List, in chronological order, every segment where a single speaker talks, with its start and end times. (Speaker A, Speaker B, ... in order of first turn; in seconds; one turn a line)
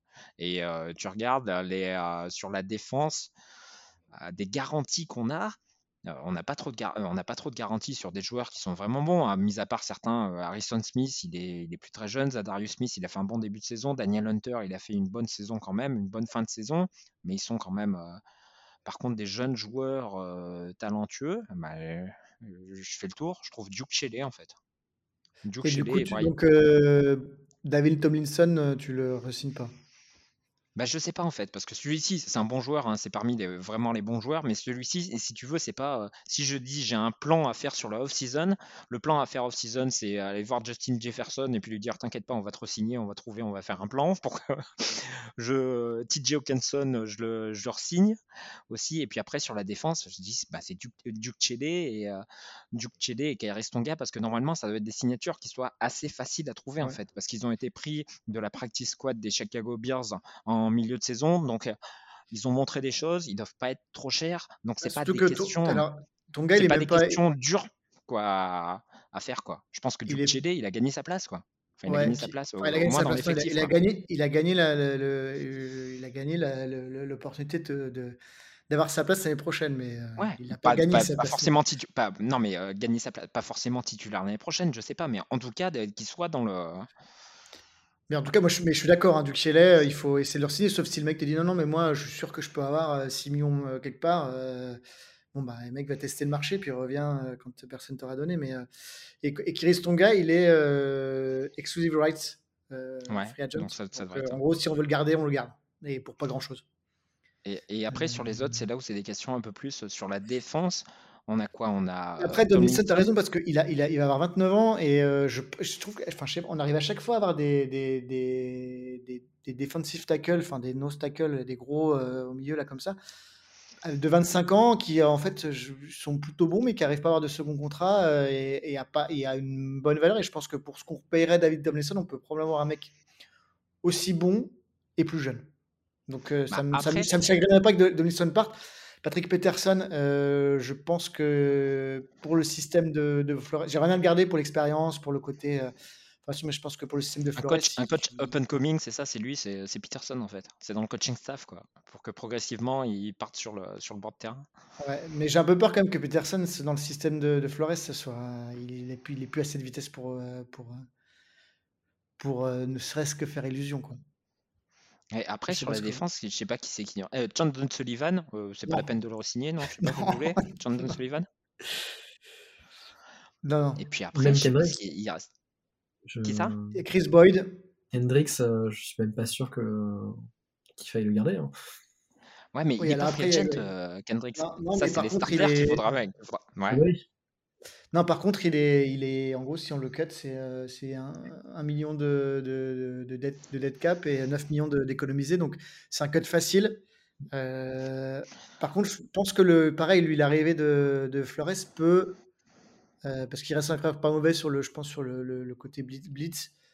Speaker A: 0.4-3.3
Speaker A: 4.1-18.2
Speaker A: 18.9-24.6
Speaker A: 25.4-26.3
Speaker B: 25.6-29.7
Speaker A: 30.8-48.2
Speaker A: 48.7-61.8
Speaker A: 62.3-65.8
Speaker B: 64.8-67.2
Speaker A: 66.6-73.7
Speaker B: 70.1-70.3
Speaker B: 71.9-78.2
Speaker B: 78.7-81.5
Speaker A: 80.2-86.9
Speaker B: 88.1-94.8
Speaker B: 95.3-98.7
Speaker B: 99.2-106.6
Speaker A: 103.1-104.4
Speaker A: 107.4-113.0
Speaker B: 107.9-108.5
Speaker B: 112.2-123.0
Speaker B: 123.8-132.9
Speaker B: 133.8-135.5
Speaker B: 136.1-145.7
Speaker A: 136.5-137.1
Speaker B: 146.2-148.3
Speaker A: 147.4-154.5
Speaker B: 154.8-160.9
Speaker B: 162.2-164.0
Speaker A: 165.1-171.2
Speaker B: 165.5-166.0
Speaker B: 169.8-170.4
Speaker B: 173.4-173.8
Speaker A: 173.8-175.3
Speaker C: 174.1-174.8
Speaker C: 176.1-176.8
Speaker A: 176.2-176.6
Speaker B: 176.7-177.6
Speaker C: 177.9-181.5
Speaker A: 182.5-186.8
Speaker B: 182.8-183.7
Speaker B: 184.3-185.8
Speaker C: 186.7-187.0
Speaker B: 187.9-202.2
Speaker B: 203.0-206.5